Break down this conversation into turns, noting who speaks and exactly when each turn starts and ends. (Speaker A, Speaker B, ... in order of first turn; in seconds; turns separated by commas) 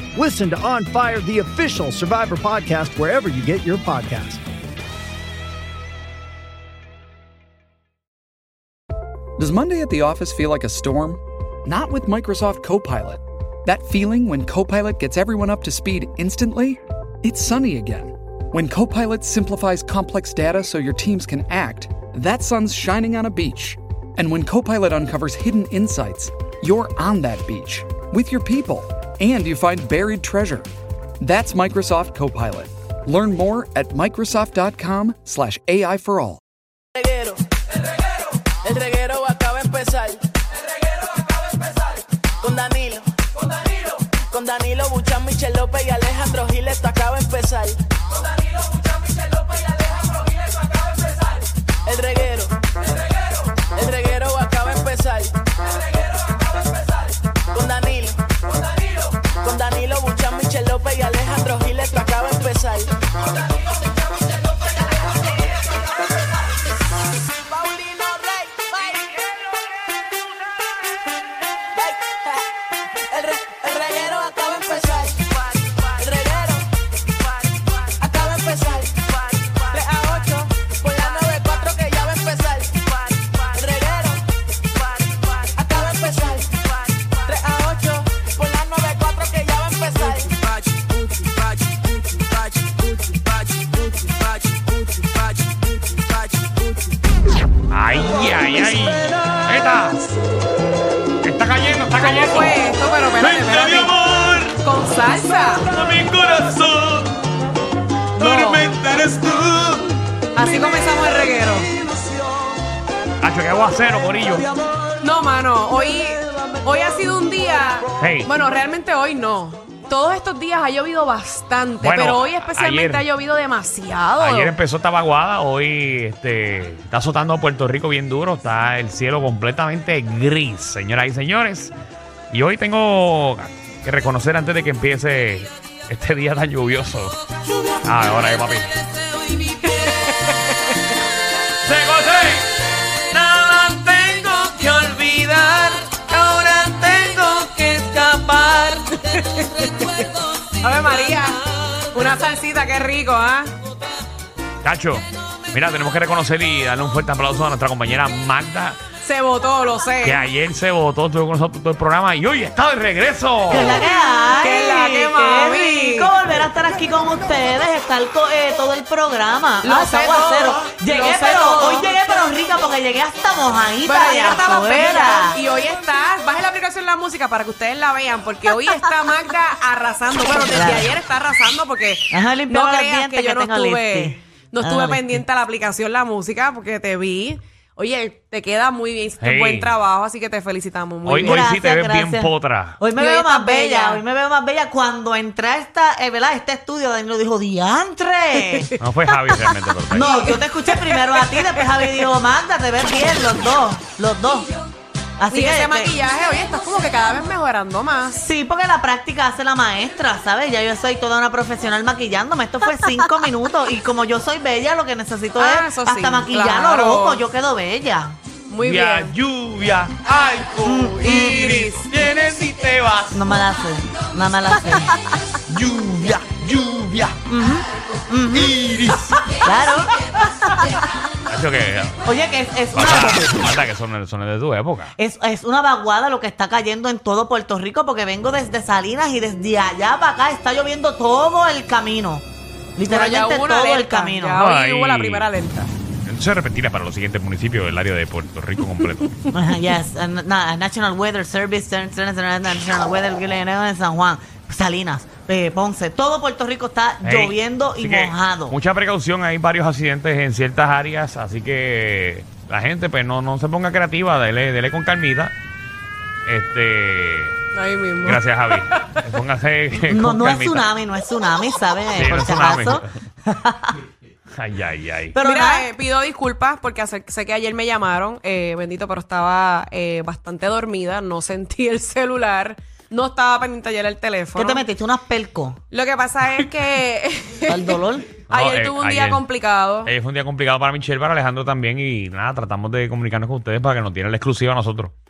Speaker A: 0.1-4.4, Speaker B: 9.4-30.7, Speaker B: 31.2-36.4, Speaker C: 37.0-37.4, Speaker C: 38.6-40.2, Speaker C: 42.4-43.1, Speaker C: 44.3-47.8, Speaker C: 51.9-52.5, Speaker C: 53.7-55.3, Speaker C: 57.5-58.2, Speaker C: 59.4-62.9, Speaker C: 67.5-69.1, Speaker C: 71.8-72.4, Speaker C: 73.1-75.2, Speaker C: 75.8-76.6, Speaker C: 78.0-79.1, Speaker C: 79.7-84.2, Speaker C: 85.5-86.6, Speaker C: 87.2-90.5, Speaker C: 94.1-94.6, Speaker D: 97.7-100.1, Speaker D: 101.2-102.6, Speaker E: 102.0-103.9, Speaker D: 103.2-104.6, Speaker E: 104.6-105.7, Speaker D: 105.6-107.1, Speaker E: 108.2-108.7, Speaker D: 108.2-110.0, Speaker E: 110.3-111.7, Speaker D: 113.2-114.5, Speaker E: 115.0-124.5, Speaker D: 118.0-118.3, Speaker D: 121.8-123.0, Speaker D: 124.2-131.7, Speaker D: 132.3-137.2, Speaker D: 137.8-138.7, Speaker E: 139.8-140.4, Speaker D: 141.6-148.9, Speaker E: 149.0-150.1, Speaker E: 150.6-151.4, Speaker E: 151.9-153.5, Speaker D: 154.6-158.8, Speaker E: 159.0-160.2, Speaker D: 160.0-163.8, Speaker F: 163.5-175.4, Speaker E: 164.4-166.1, Speaker E: 169.6-171.9, Speaker E: 173.8-191.5, Speaker F: 180.3-181.0, Speaker F: 182.1-185.2, Speaker D: 189.2-189.7, Speaker D: 191.0-192.8, Speaker F: 191.1-198.7, Speaker E: 192.9-194.0, Speaker D: 198.8-200.1, Speaker F: 199.9-204.5, Speaker E: 199.9-200.3, Speaker F: 205.2-205.9, Speaker E: 205.3-208.2, Speaker F: 208.1-218.2, Speaker E: 215.4-217.2, Speaker E: 218.5-219.1, Speaker D: 218.6-223.4, Speaker F: 220.6-221.6, Speaker E: 221.1-221.9, Speaker F: 223.1-225.0, Speaker D: 225.5-227.2, Speaker F: 227.3-228.5, Speaker D: 228.3-229.3, Speaker F: 229.4-229.9, Speaker D: 231.3-232.0, Speaker F: 232.0-233.5, Speaker D: 232.7-234.9, Speaker F: 235.0-242.2, Speaker F: 242.8-244.4, Speaker E: 242.9-245.7, Speaker D: 244.4-245.3, Speaker D: 246.1-249.2, Speaker F: 249.3-258.6, Speaker D: 257.0-265.3, Speaker D: 266.2-267.4, Speaker E: 267.5-269.0, Speaker D: 268.0-270.7, Speaker F: 269.9-273.8, Speaker D: 271.9-272.9, Speaker D: 274.3-275.1, Speaker F: 275.1-275.7, Speaker E: 275.2-284.6, Speaker F: 284.4-285.6, Speaker E: 285.7-289.9, Speaker F: 287.4-288.1, Speaker D: 288.3-289.2, Speaker D: 289.8-294.9